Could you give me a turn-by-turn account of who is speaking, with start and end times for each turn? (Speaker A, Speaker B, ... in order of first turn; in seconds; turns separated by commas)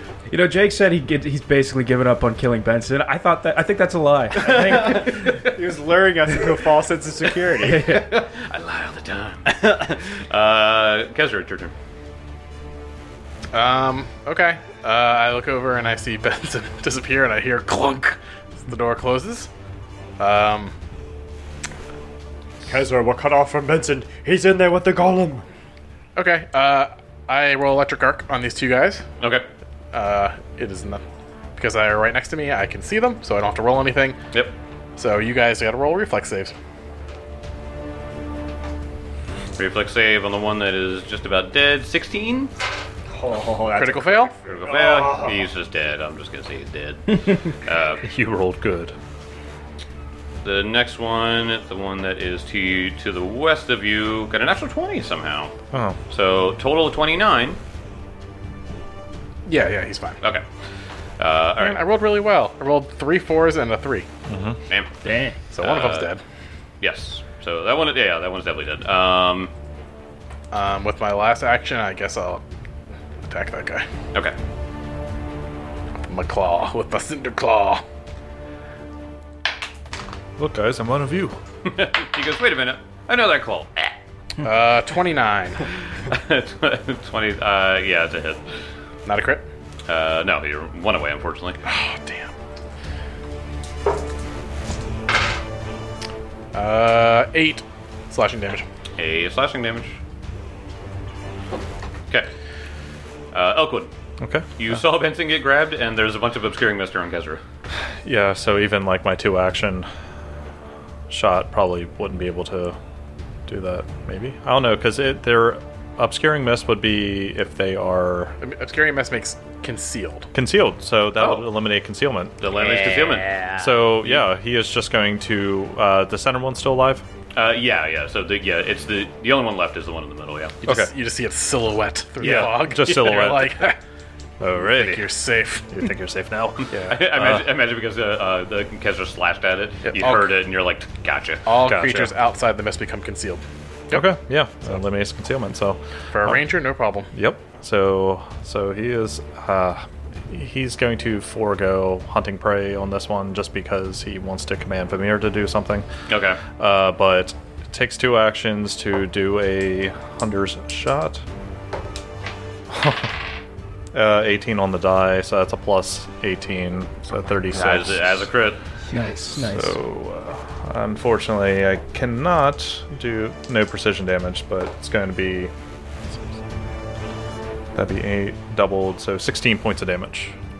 Speaker A: 0.3-5.4, Speaker B: 4.4-8.0, Speaker A: 7.6-8.1, Speaker C: 7.9-11.7, Speaker B: 9.5-10.0, Speaker D: 13.5-19.5, Speaker D: 20.2-20.7, Speaker B: 22.6-25.4, Speaker D: 26.1-29.0, Speaker C: 29.2-29.5, Speaker D: 29.9-31.0, Speaker D: 31.6-34.2, Speaker D: 35.0-36.5, Speaker C: 39.6-42.5, Speaker B: 43.1-45.4, Speaker D: 43.7-44.3, Speaker C: 44.4-48.0, Speaker E: 48.0-48.9, Speaker C: 50.4-55.5, Speaker E: 55.7-56.0, Speaker C: 56.1-57.6, Speaker D: 59.5-60.2, Speaker C: 61.2-61.9, Speaker D: 61.6-64.1, Speaker E: 64.3-64.6, Speaker C: 64.7-64.9, Speaker A: 65.0-65.4, Speaker D: 65.5-66.2, Speaker C: 65.6-66.1, Speaker C: 66.8-69.5, Speaker D: 70.5-72.4, Speaker D: 73.2-73.9, Speaker D: 76.1-77.8, Speaker E: 80.4-81.4, Speaker C: 81.6-84.0, Speaker D: 84.4-85.6, Speaker C: 86.1-88.4, Speaker D: 89.0-89.4, Speaker C: 89.9-91.6, Speaker D: 91.6-92.3, Speaker D: 96.5-98.6, Speaker C: 99.0-100.0, Speaker C: 103.3-103.9, Speaker E: 104.2-104.5, Speaker C: 104.6-107.4, Speaker E: 108.0-109.9, Speaker E: 111.1-112.8, Speaker E: 113.5-118.3, Speaker D: 118.4-120.3, Speaker E: 120.3-122.3, Speaker C: 121.2-121.4, Speaker C: 122.4-123.4, Speaker B: 122.5-123.7, Speaker E: 123.6-127.0, Speaker C: 127.3-130.5, Speaker D: 130.6-133.8, Speaker E: 130.6-130.9, Speaker E: 132.2-133.7, Speaker E: 134.4-135.1, Speaker D: 134.6-135.7, Speaker E: 135.7-137.4, Speaker C: 136.6-141.5, Speaker D: 139.8-140.3, Speaker D: 141.4-144.1, Speaker E: 141.6-142.1, Speaker E: 143.9-146.5, Speaker D: 146.1-147.1, Speaker E: 147.1-155.8, Speaker C: 156.1-156.4, Speaker E: 156.6-161.2, Speaker E: 162.7-163.1, Speaker E: 163.9-168.3, Speaker C: 167.5-168.6, Speaker A: 168.9-169.8, Speaker E: 169.3-175.5, Speaker E: 177.7-180.3